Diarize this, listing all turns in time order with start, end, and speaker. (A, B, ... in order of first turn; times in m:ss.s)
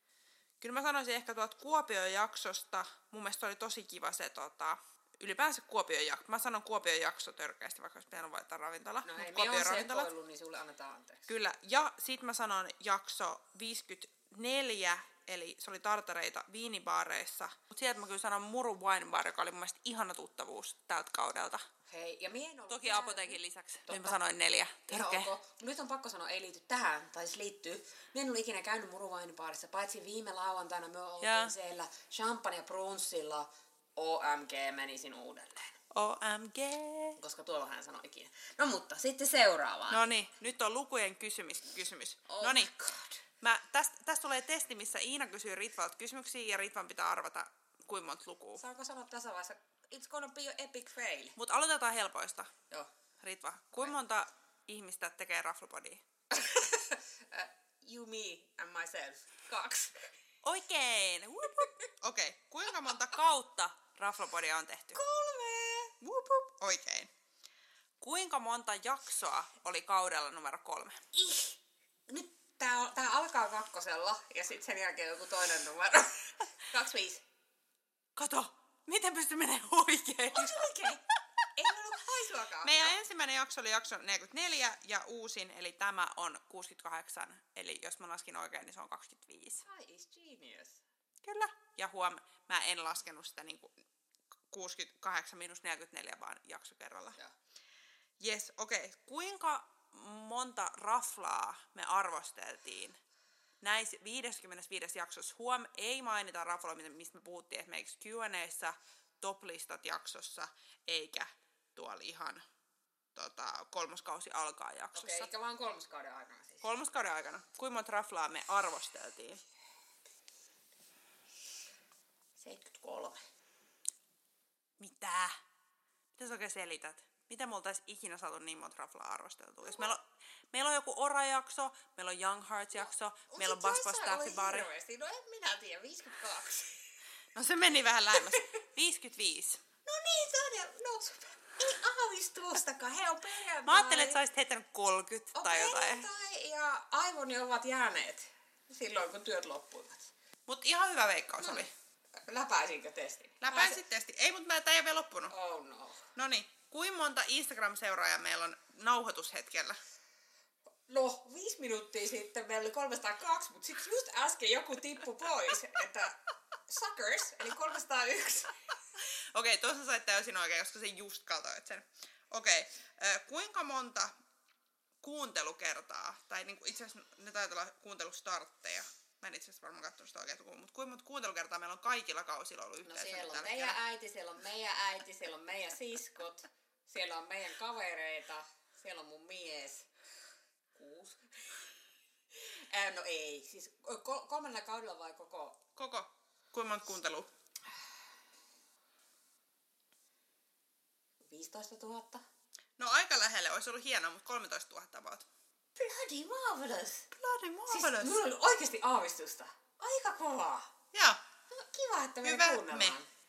0:00.6-0:10.1 A
0:09.0-0:11.3 B
0:11.3-0:21.6 A
0:21.9-0:24.1 B
0:22.7-0:25.3 A
0:24.9-0:35.8 B
0:31.2-0:31.5 A
0:35.9-0:37.2 A
0:37.2-0:40.0 B
0:39.9-0:42.7 A
0:42.3-0:43.2 B
0:43.4-0:48.6 A
0:48.6-0:51.4 B
0:51.4-0:52.5 A
0:53.2-0:56.0 A
0:56.3-1:00.0 B
1:00.4-1:05.0 A
1:04.9-1:06.1 B
1:06.0-1:07.1 A
1:08.0-1:11.0 A
1:11.1-1:17.2 B
1:18.2-1:20.7 A
1:20.3-1:21.0 B
1:21.5-1:23.0 B
1:22.6-1:29.6 A
1:29.6-1:30.8 B
1:31.2-1:33.8 A
1:34.5-1:37.2 A
1:38.2-1:43.0 A
1:43.6-1:52.4 A
1:53.1-1:55.3 A
1:54.9-1:56.6 B
1:56.6-1:59.4 A
2:02.4-2:03.2 B
2:04.8-2:05.3 A
2:06.2-2:10.0 A
2:10.5-2:14.7 A
2:13.3-2:16.8 B
2:17.3-2:19.6 A
2:19.8-2:24.2 B
2:23.6-2:26.1 A
2:25.3-2:30.1 B
2:30.5-2:31.7 A
2:31.4-2:31.7 B
2:32.2-2:33.8 B
2:33.4-2:35.3 A
2:35.3-2:36.0 B
2:36.2-2:39.8 A
2:40.9-2:48.5 B
2:49.3-2:54.1 A
2:55.0-3:03.8 A
3:02.8-3:09.9 B
3:10.7-3:11.2 B
3:12.4-3:15.6 B
3:15.8-3:17.3 A
3:21.2-3:22.2 B
3:22.8-3:25.3 A
3:25.8-3:27.1 B
3:27.1-3:28.2 A
3:27.7-3:30.7 B
3:30.9-3:31.2 A
3:31.5-3:33.0 B
3:32.2-3:33.0 A